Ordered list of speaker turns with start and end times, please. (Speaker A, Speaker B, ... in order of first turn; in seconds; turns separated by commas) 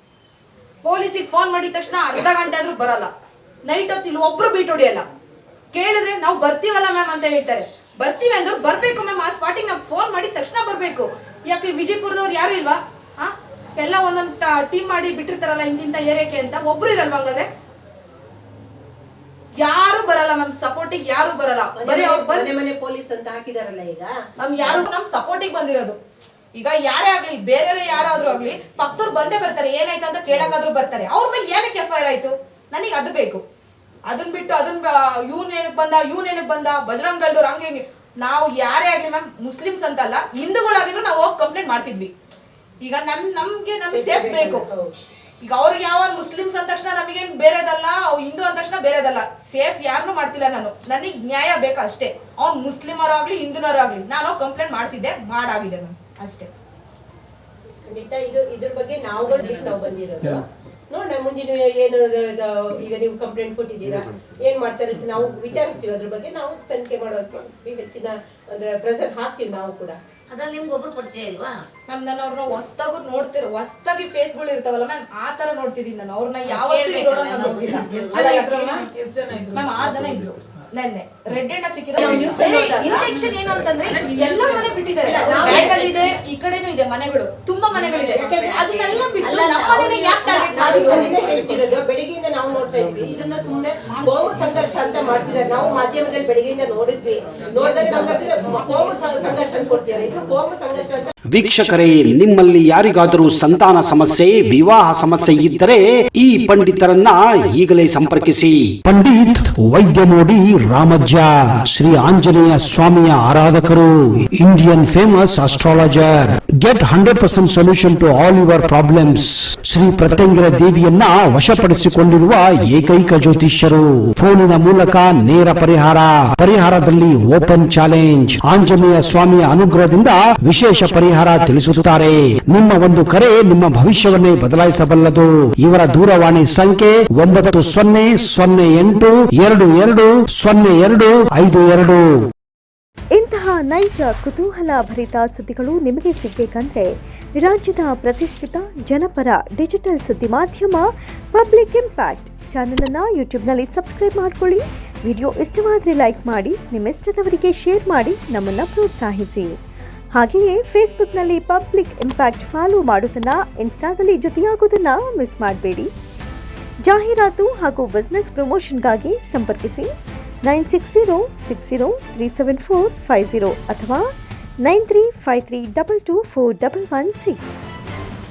Speaker A: 0.8-3.1, Speaker A: 3.6-5.1, Speaker A: 5.7-17.5, Speaker A: 19.6-22.5, Speaker B: 21.8-24.1, Speaker A: 24.4-26.0, Speaker A: 26.5-33.4, Speaker A: 34.1-42.1, Speaker A: 42.8-44.7, Speaker B: 43.9-44.9, Speaker A: 45.4-56.5, Speaker B: 57.9-70.0, Speaker C: 70.3-71.6, Speaker A: 71.9-78.9, Speaker C: 76.5-78.8, Speaker A: 79.5-91.2, Speaker B: 82.0-83.0, Speaker B: 85.0-85.8, Speaker B: 87.9-101.1, Speaker C: 89.2-90.0, Speaker C: 90.8-91.6, Speaker D: 101.3-142.0, Speaker E: 143.1-159.5, Speaker E: 160.1-165.9, Speaker E: 166.8-169.9, Speaker E: 170.4-174.0, Speaker E: 174.6-177.6